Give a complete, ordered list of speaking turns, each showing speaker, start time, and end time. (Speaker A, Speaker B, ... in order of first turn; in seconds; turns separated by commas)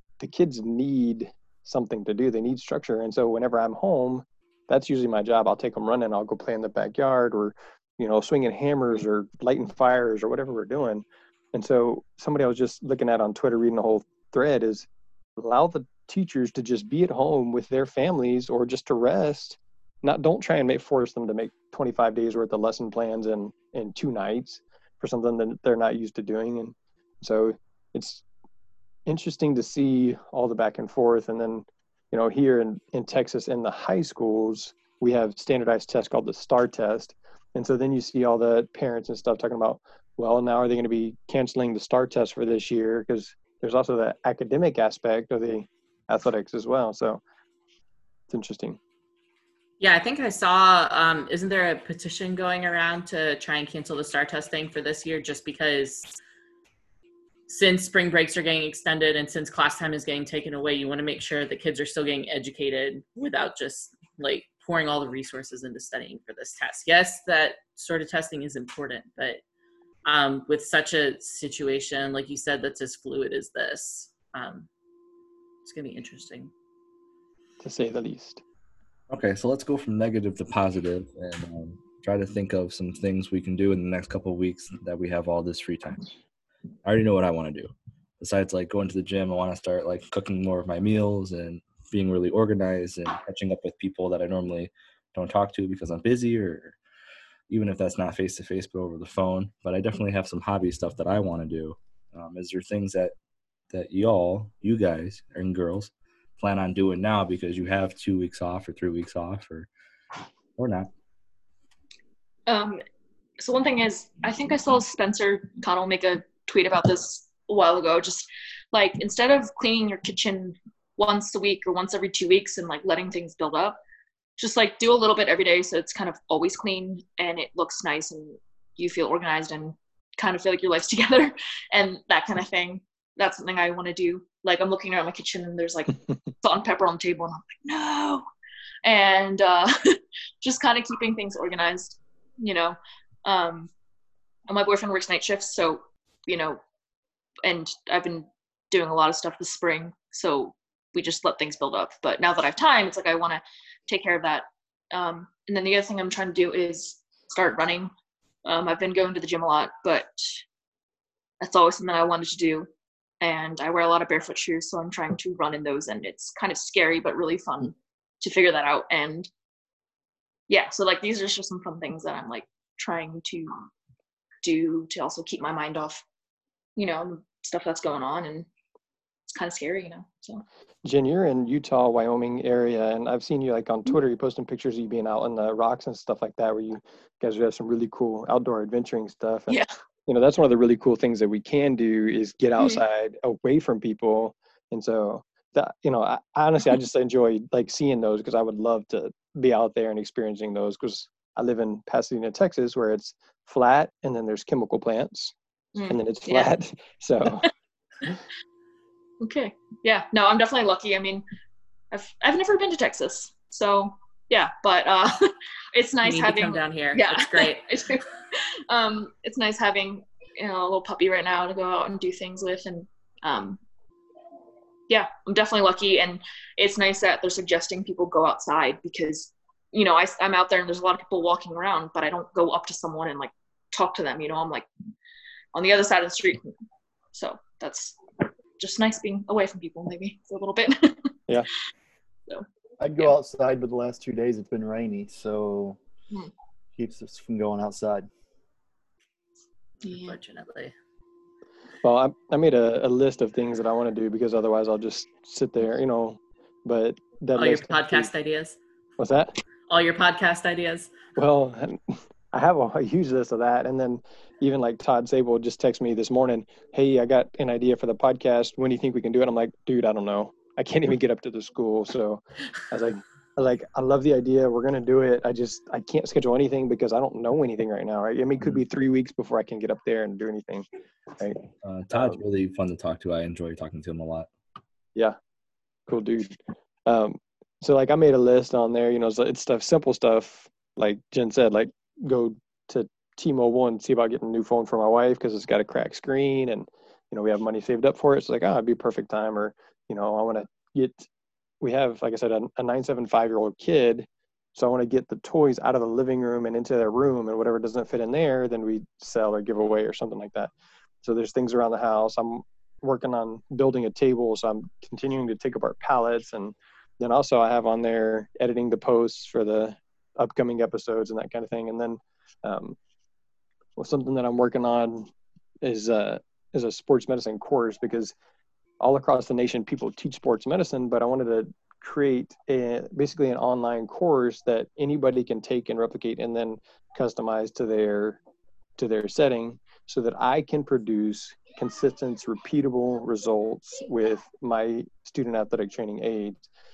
Speaker A: 0.2-28.2, Speaker A: 29.1-47.2, Speaker A: 48.3-48.8, Speaker B: 49.8-56.1, Speaker B: 57.5-69.4, Speaker B: 70.0-74.7, Speaker B: 75.6-76.5, Speaker A: 77.6-78.4, Speaker C: 79.1-86.0, Speaker C: 86.8-96.8, Speaker C: 97.5-103.1, Speaker C: 103.7-109.7, Speaker C: 110.6-110.9, Speaker D: 112.5-112.8, Speaker D: 113.4-123.8, Speaker D: 124.4-138.2, Speaker D: 138.8-143.7, Speaker D: 144.5-146.6, Speaker D: 147.4-157.9, Speaker D: 158.4-160.4, Speaker D: 161.4-162.7, Speaker D: 163.2-169.3, Speaker D: 170.5-173.7, Speaker D: 174.4-176.0, Speaker D: 176.8-178.5, Speaker D: 179.3-180.4, Speaker A: 180.8-205.3, Speaker D: 205.7-206.5, Speaker A: 205.9-207.5, Speaker D: 209.2-211.2, Speaker D: 211.9-223.6, Speaker B: 216.0-217.7, Speaker D: 224.9-234.7, Speaker D: 235.5-236.5, Speaker D: 237.1-238.0, Speaker D: 238.6-241.2, Speaker E: 242.8-245.8, Speaker E: 246.8-248.1, Speaker D: 249.8-250.2, Speaker B: 249.8-250.7, Speaker A: 251.8-258.1, Speaker B: 257.4-258.6, Speaker A: 259.0-259.4, Speaker B: 259.7-261.0, Speaker A: 261.1-280.6, Speaker A: 281.2-282.2, Speaker C: 281.6-284.3, Speaker A: 285.9-301.1, Speaker A: 301.6-322.8, Speaker A: 323.8-328.1, Speaker A: 328.8-338.2, Speaker A: 338.8-346.4